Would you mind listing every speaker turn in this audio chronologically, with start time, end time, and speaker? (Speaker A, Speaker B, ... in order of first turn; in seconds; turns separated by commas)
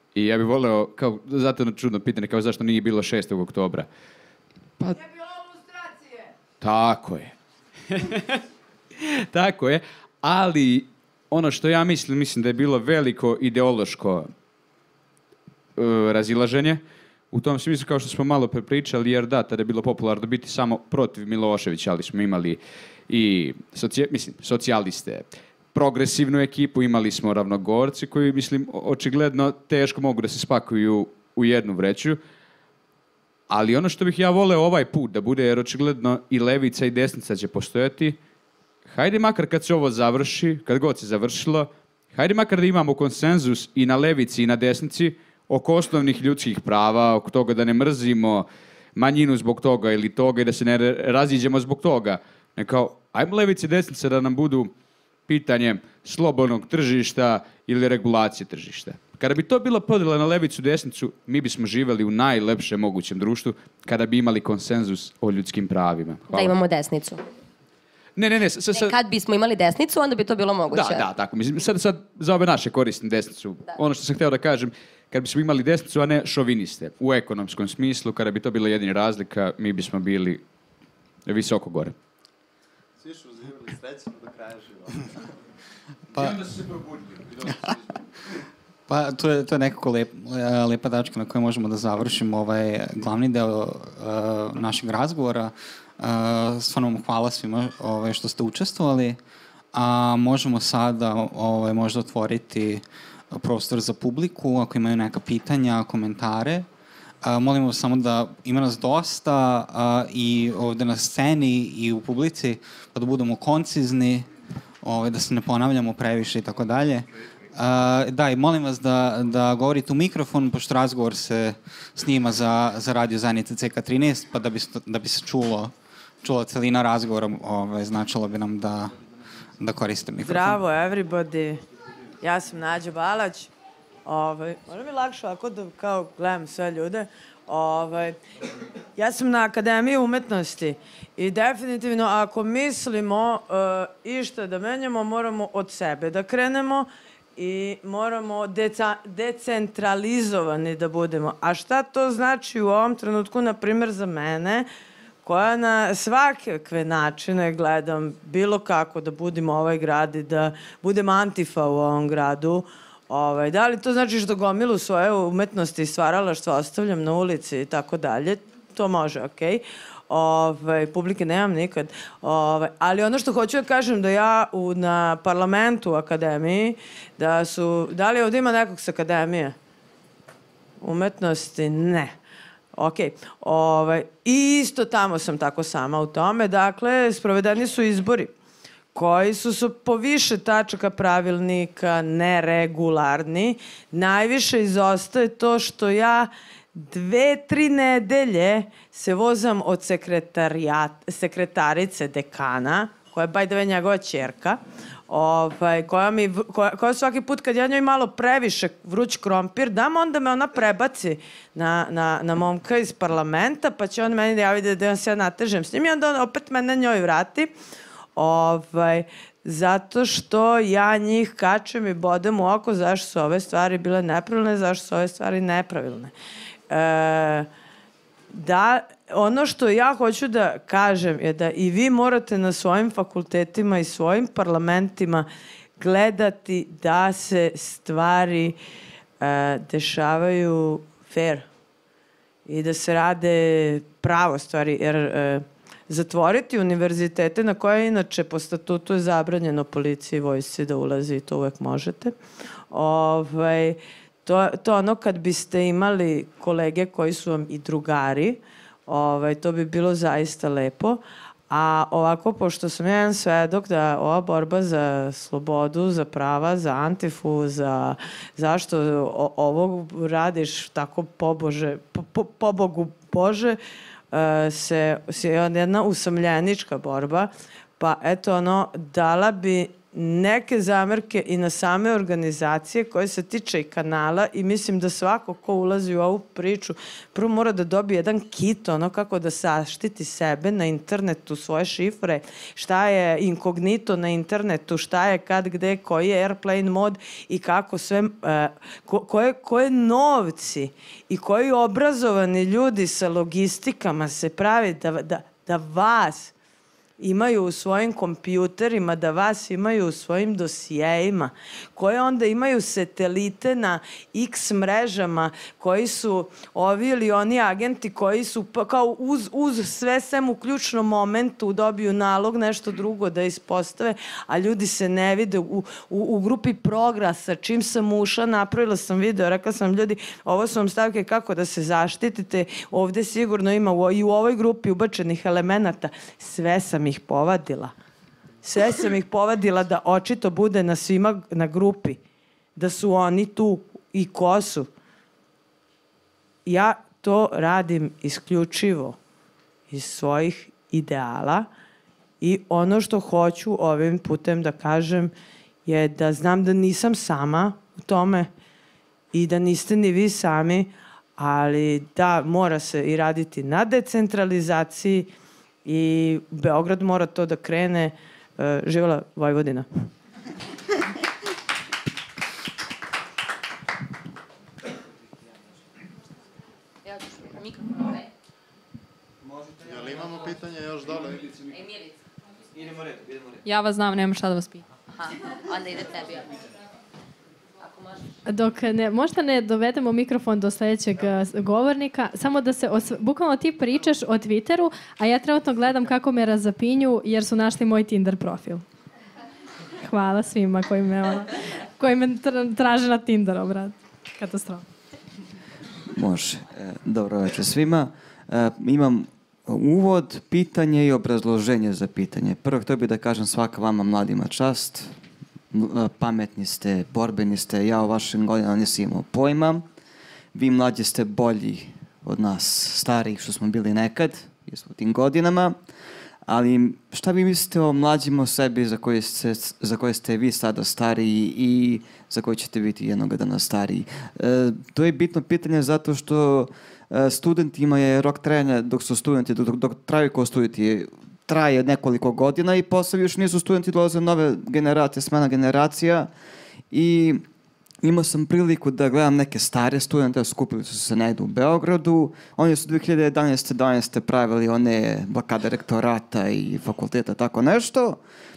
Speaker A: 0.1-3.9, Speaker B: 5.0-6.3, Speaker A: 6.6-7.3, Speaker A: 7.9-8.4, Speaker A: 9.0-14.3, Speaker A: 15.8-16.8, Speaker A: 17.3-32.2, Speaker A: 33.5-38.2, Speaker A: 38.9-54.7, Speaker A: 55.3-66.5, Speaker C: 66.3-67.2, Speaker A: 68.2-69.0, Speaker C: 68.7-71.0, Speaker A: 70.7-80.4, Speaker A: 81.3-82.0, Speaker D: 83.0-85.0, Speaker E: 86.1-86.4, Speaker A: 86.2-87.7, Speaker E: 88.9-99.2, Speaker E: 99.7-106.7, Speaker E: 107.2-114.3, Speaker E: 114.8-128.9, Speaker E: 129.6-130.6, Speaker B: 130.2-131.6, Speaker B: 132.2-133.5, Speaker B: 134.1-138.2, Speaker B: 139.0-154.7, Speaker B: 155.2-179.6, Speaker B: 180.8-182.2, Speaker B: 182.8-188.3, Speaker B: 188.9-217.5, Speaker B: 218.2-226.1, Speaker B: 226.7-227.5, Speaker B: 228.3-235.3, Speaker B: 235.8-238.6, Speaker B: 239.2-241.5, Speaker B: 242.5-252.2, Speaker B: 252.7-273.6, Speaker B: 274.1-306.3, Speaker B: 307.0-337.7, Speaker B: 338.4-342.0, Speaker B: 342.6-344.7, Speaker B: 346.4-349.0, Speaker B: 349.7-351.5, Speaker B: 352.2-355.1, Speaker B: 355.6-358.3, Speaker B: 359.1-365.1, Speaker B: 365.6-369.7, Speaker C: 376.8-378.1, Speaker D: 379.6-381.3, Speaker C: 381.5-382.0, Speaker F: 382.9-383.2, Speaker G: 383.4-384.6, Speaker C: 384.9-386.4, Speaker C: 387.6-388.1, Speaker G: 388.3-398.6, Speaker G: 399.8-404.7, Speaker F: 405.9-414.9, Speaker F: 415.5-419.6, Speaker F: 420.3-425.6, Speaker F: 426.3-446.1, Speaker F: 446.7-447.2, Speaker F: 447.8-458.0